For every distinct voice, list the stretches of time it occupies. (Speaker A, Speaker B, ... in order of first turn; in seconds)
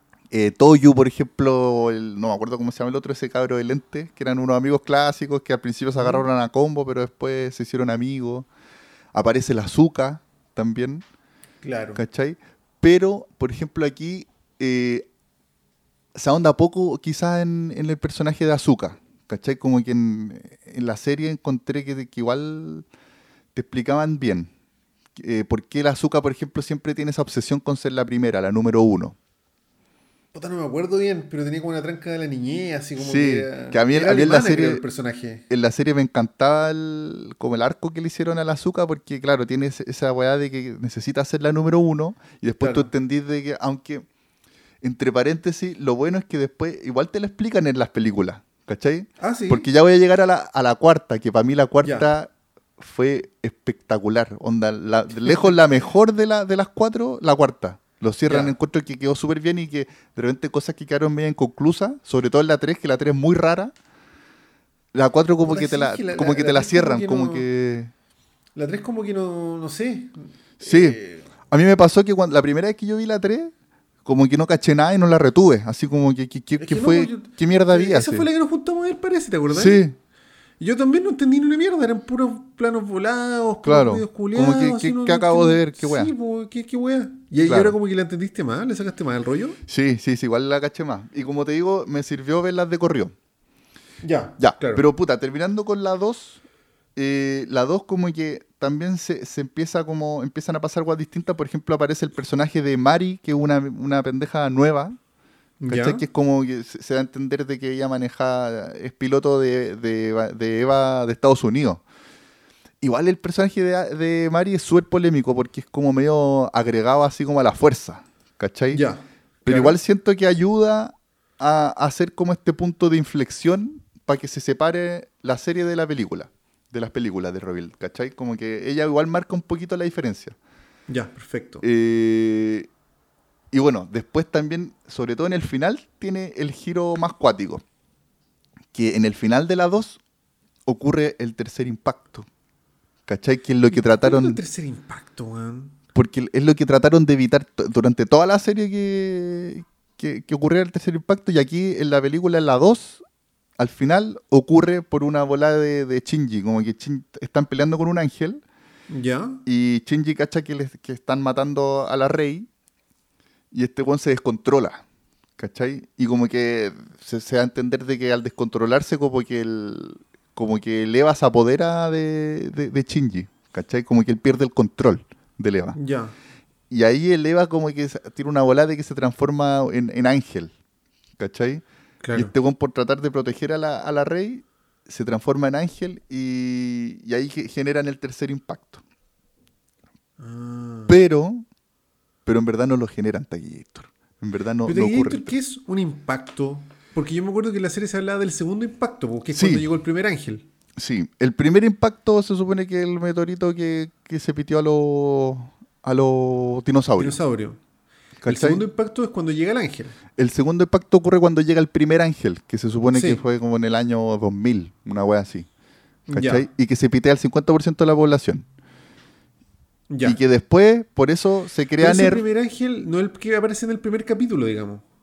Speaker A: 0.3-8.5, 9.1-11.0, 11.9-15.1, 16.1-22.9, 23.5-24.5, 25.2-29.1, 33.0-34.8, 35.5-44.0, 44.8-63.7, 64.9-67.9, 70.6-71.0, 71.5-73.5, 74.0-78.3, 79.5-80.0, 83.6-86.1, 87.4-87.8, 89.7-93.1, 94.4-96.4, 97.0-105.0, 105.7-111.8, 112.8-118.8, 119.4-130.3, 131.6-132.7, 133.5-137.6, 138.7-140.0, 140.7-142.2, 143.1-144.4, 145.9-153.0, 153.6-158.4, 159.4-162.5, 163.5-164.8, 165.4-175.8, 176.7-180.5, 181.2-188.8, 190.9-191.4, 192.2-195.4, 199.3-199.6, 200.8-207.2, 208.2-208.6, 210.2-215.5, 216.1-218.4, 220.0-222.2
Speaker B: 6.0-6.2, 11.6-12.0, 30.3-35.4, 42.6-42.9, 49.2-49.7, 51.8-52.1, 58.2-58.5, 65.5-67.5, 68.5-71.3, 76.6-79.8, 80.6-89.6, 94.0-94.8, 105.6-106.0, 118.7-119.8, 130.9-131.6, 143.7-145.7, 158.9-159.4, 175.7-176.1, 182.0-182.3, 190.2-190.9, 194.6-200.5, 207.0-207.6, 208.3-210.0, 212.9-213.2, 216.1-216.5, 219.9-220.2, 221.8-224.8